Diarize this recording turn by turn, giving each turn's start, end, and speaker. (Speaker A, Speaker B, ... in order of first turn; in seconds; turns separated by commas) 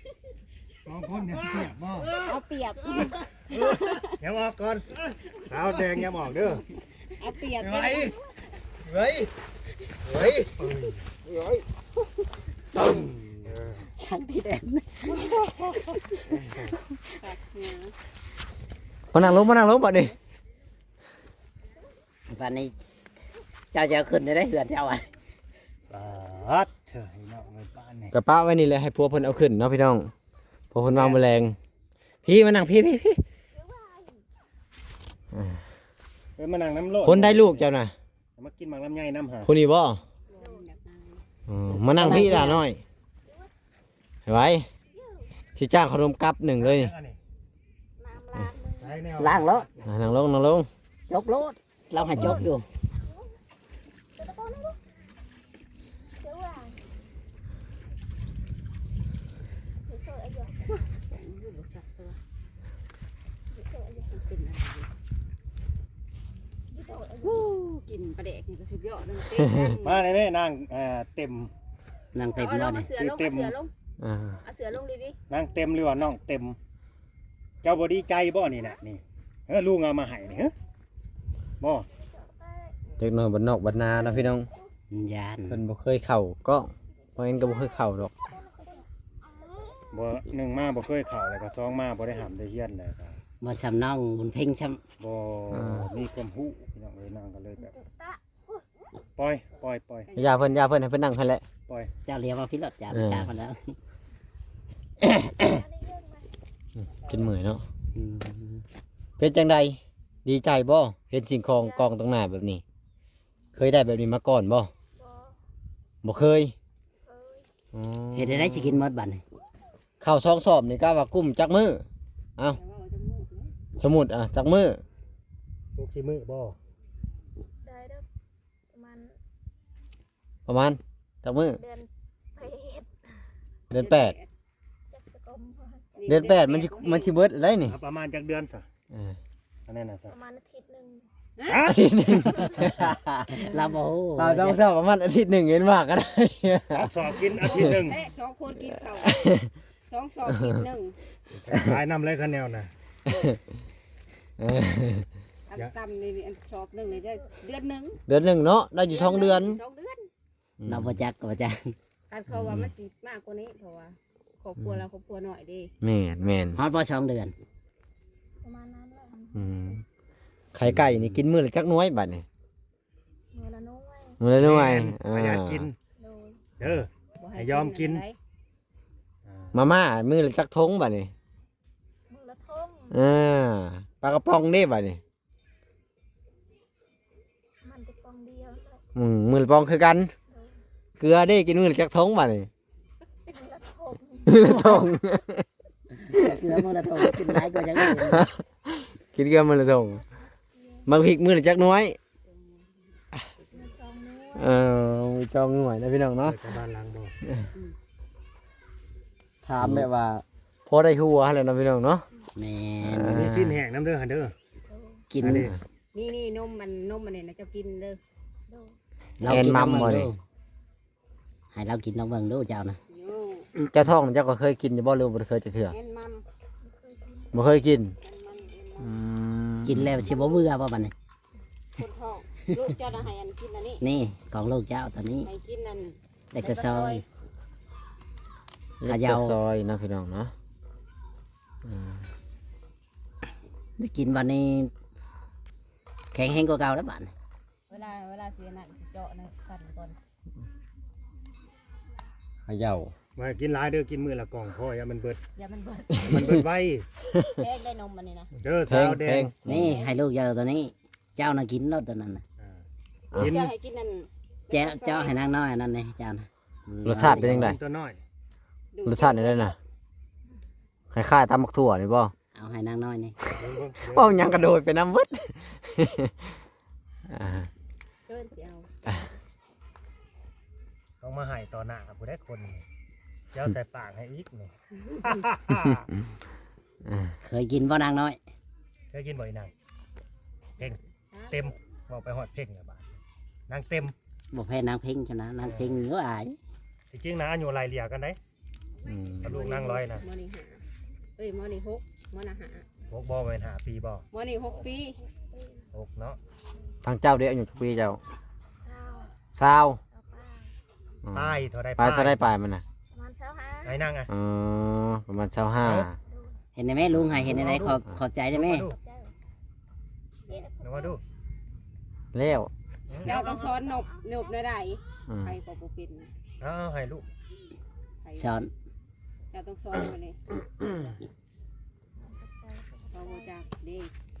Speaker A: 0.8-2.2, Speaker B: 2.0-4.1, Speaker A: 3.5-6.7, Speaker B: 7.2-8.1, Speaker C: 7.6-8.1, Speaker A: 7.6-8.1, Speaker D: 7.8-8.4, Speaker C: 8.8-9.3, Speaker A: 10.1-11.1, Speaker C: 10.1-10.6, Speaker C: 11.2-11.6, Speaker E: 12.7-13.2, Speaker A: 13.4-13.8, Speaker E: 13.8-15.5, Speaker A: 16.3-16.8, Speaker B: 17.1-17.9, Speaker C: 19.1-20.1, Speaker E: 22.3-22.7, Speaker E: 23.7-25.1, Speaker A: 25.9-28.1, Speaker C: 28.1-30.1, Speaker C: 30.7-31.6, Speaker A: 30.8-31.2, Speaker C: 32.2-33.2, Speaker D: 33.5-34.2, Speaker C: 35.3-35.6, Speaker A: 36.4-37.7, Speaker C: 37.0-37.9, Speaker A: 38.4-39.5, Speaker C: 39.4-40.0, Speaker B: 40.3-41.2, Speaker D: 40.4-40.7, Speaker C: 41.5-42.8, Speaker E: 41.7-42.6, Speaker B: 42.0-42.6, Speaker D: 43.2-43.5, Speaker C: 44.2-44.7, Speaker D: 44.9-45.3, Speaker C: 45.5-46.9, Speaker A: 46.6-47.2, Speaker D: 48.0-49.1, Speaker A: 48.8-50.0, Speaker E: 49.2-49.7, Speaker C: 49.8-50.7, Speaker E: 51.1-52.6, Speaker D: 52.1-52.5, Speaker C: 52.1-52.5, Speaker D: 53.0-53.3, Speaker D: 54.1-54.8, Speaker D: 56.2-56.8, Speaker D: 59.8-60.7, Speaker B: 60.8-62.2, Speaker D: 63.5-64.1, Speaker B: 64.1-64.9, Speaker D: 66.7-67.6, Speaker B: 67.2-70.1, Speaker C: 69.4-69.7, Speaker A: 69.8-71.5, Speaker E: 72.1-72.9, Speaker B: 72.2-73.7, Speaker A: 72.9-73.5, Speaker C: 74.0-74.4, Speaker B: 74.4-75.2, Speaker A: 75.3-76.6, Speaker A: 77.6-80.5, Speaker A: 81.6-81.9, Speaker D: 81.9-82.8, Speaker C: 83.0-84.5, Speaker D: 84.4-84.7, Speaker E: 84.9-85.6, Speaker C: 85.5-88.1, Speaker D: 87.2-90.0, Speaker A: 89.9-93.2, Speaker E: 93.4-94.8, Speaker A: 95.0-97.8, Speaker C: 95.5-95.9, Speaker D: 97.6-98.7, Speaker A: 99.2-100.1, Speaker B: 100.0-100.7, Speaker C: 100.2-101.4, Speaker E: 102.0-103.8, Speaker C: 102.9-103.3, Speaker D: 105.3-106.3, Speaker C: 106.8-107.6, Speaker E: 107.9-108.6, Speaker C: 109.2-112.6, Speaker D: 111.6-111.9, Speaker C: 113.5-114.7, Speaker D: 115.0-115.4, Speaker C: 116.0-116.5, Speaker D: 117.0-117.5, Speaker C: 117.7-118.8, Speaker E: 118.1-119.2, Speaker C: 120.0-121.8, Speaker B: 122.5-123.5, Speaker C: 123.8-124.8, Speaker A: 125.7-126.6, Speaker D: 127.6-128.0, Speaker D: 128.7-129.2, Speaker C: 130.5-131.6, Speaker D: 131.5-132.9, Speaker C: 133.7-134.2, Speaker B: 133.7-134.3, Speaker D: 134.9-136.1, Speaker B: 135.9-137.1, Speaker C: 136.1-137.8, Speaker A: 137.6-138.7, Speaker C: 138.9-139.2, Speaker A: 139.7-140.2, Speaker D: 140.1-141.0, Speaker B: 141.4-141.6, Speaker A: 141.4-142.9, Speaker C: 141.6-143.6, Speaker E: 143.3-144.6, Speaker C: 144.2-147.8, Speaker A: 146.7-148.0, Speaker B: 147.4-151.0, Speaker C: 148.7-149.5, Speaker A: 151.3-152.7, Speaker C: 153.1-153.4, Speaker C: 154.4-155.1, Speaker B: 155.5-158.0, Speaker D: 156.9-157.3, Speaker C: 158.1-159.6, Speaker B: 158.8-160.1, Speaker C: 160.6-161.0, Speaker E: 160.7-161.8, Speaker B: 162.1-165.7, Speaker C: 162.3-162.7, Speaker C: 164.6-164.8, Speaker C: 165.8-166.6, Speaker E: 166.5-167.3, Speaker D: 168.4-169.8, Speaker C: 169.3-169.8, Speaker C: 170.5-172.2, Speaker D: 173.3-174.2, Speaker C: 174.2-175.7, Speaker A: 174.3-175.8, Speaker D: 176.0-176.4, Speaker A: 176.6-178.0, Speaker B: 177.2-178.2, Speaker A: 179.2-179.7, Speaker C: 179.5-181.1, Speaker D: 182.1-183.0, Speaker C: 182.9-185.0, Speaker D: 187.6-188.8, Speaker C: 188.9-190.1, Speaker D: 190.3-190.6, Speaker C: 191.0-192.5, Speaker D: 193.3-194.9, Speaker C: 194.2-195.4, Speaker E: 194.4-194.9, Speaker E: 196.0-198.3, Speaker C: 196.1-200.0, Speaker D: 200.5-200.9, Speaker C: 200.8-202.0, Speaker B: 202.3-202.7, Speaker B: 203.4-203.7, Speaker D: 203.5-204.5, Speaker C: 204.3-206.4, Speaker A: 206.2-207.2, Speaker C: 209.4-212.0, Speaker E: 209.5-209.9, Speaker E: 212.3-213.2, Speaker C: 212.8-213.6, Speaker A: 213.1-214.3, Speaker D: 214.7-215.0, Speaker E: 215.1-215.5, Speaker A: 215.2-215.5, Speaker C: 215.2-215.6, Speaker B: 215.9-218.0, Speaker D: 218.5-218.8, Speaker E: 219.2-220.2, Speaker C: 219.2-220.1, Speaker E: 221.5-222.8, Speaker B: 222.9-223.5, Speaker C: 223.7-225.8, Speaker B: 225.7-226.2, Speaker D: 226.6-227.4, Speaker C: 227.3-227.9, Speaker B: 228.0-228.9, Speaker C: 228.8-230.1, Speaker E: 229.6-230.9, Speaker B: 229.9-230.5, Speaker B: 231.8-233.8, Speaker E: 233.8-235.3, Speaker B: 235.2-237.0, Speaker E: 236.3-237.0, Speaker C: 238.8-240.3, Speaker E: 238.8-239.4, Speaker C: 241.6-242.0, Speaker E: 243.8-244.7, Speaker E: 246.1-247.1, Speaker B: 247.7-250.0, Speaker C: 252.4-252.9, Speaker A: 253.2-255.2, Speaker B: 255.3-256.4, Speaker A: 256.0-256.9, Speaker B: 257.1-258.3, Speaker A: 258.4-259.3, Speaker C: 258.7-259.7, Speaker E: 259.4-262.2, Speaker B: 259.5-259.9, Speaker A: 262.4-263.4, Speaker C: 263.1-263.5, Speaker B: 263.1-265.2, Speaker E: 264.5-267.6, Speaker C: 266.8-267.6, Speaker A: 267.0-268.0, Speaker B: 268.7-269.6, Speaker C: 268.8-269.6, Speaker C: 270.9-272.1, Speaker E: 272.3-273.1, Speaker A: 273.3-274.5, Speaker C: 273.9-276.3, Speaker C: 277.1-277.5, Speaker B: 278.1-279.1, Speaker A: 281.0-282.6, Speaker A: 283.3-285.9, Speaker C: 286.8-287.1, Speaker E: 287.2-288.2, Speaker A: 288.9-289.5, Speaker A: 290.6-293.0, Speaker B: 291.1-291.6, Speaker A: 293.5-293.9, Speaker E: 294.3-296.4, Speaker A: 295.4-295.8, Speaker A: 296.9-298.2, Speaker C: 298.8-299.3, Speaker B: 299.1-300.6, Speaker A: 299.2-300.0, Speaker B: 301.2-302.6, Speaker A: 302.9-304.0, Speaker B: 304.1-305.0, Speaker D: 304.5-305.6, Speaker A: 305.7-306.2, Speaker C: 306.8-308.0, Speaker D: 308.5-309.1, Speaker C: 309.4-309.8, Speaker D: 309.8-310.5, Speaker C: 311.1-312.6, Speaker A: 311.1-312.3, Speaker D: 312.9-313.9, Speaker A: 313.6-314.1, Speaker C: 314.1-315.9, Speaker A: 315.6-315.9, Speaker D: 315.9-316.4, Speaker E: 316.6-318.7, Speaker C: 316.9-318.0, Speaker A: 317.2-317.8, Speaker A: 318.3-318.8, Speaker D: 318.6-319.1, Speaker D: 320.3-321.0, Speaker A: 320.6-321.0, Speaker C: 322.1-322.5, Speaker A: 322.9-323.5, Speaker B: 323.0-326.1, Speaker D: 323.0-324.3, Speaker C: 325.1-325.4, Speaker A: 326.4-327.1, Speaker B: 328.0-328.4, Speaker E: 328.1-328.5, Speaker B: 329.3-330.2, Speaker D: 332.0-333.4, Speaker B: 332.9-333.9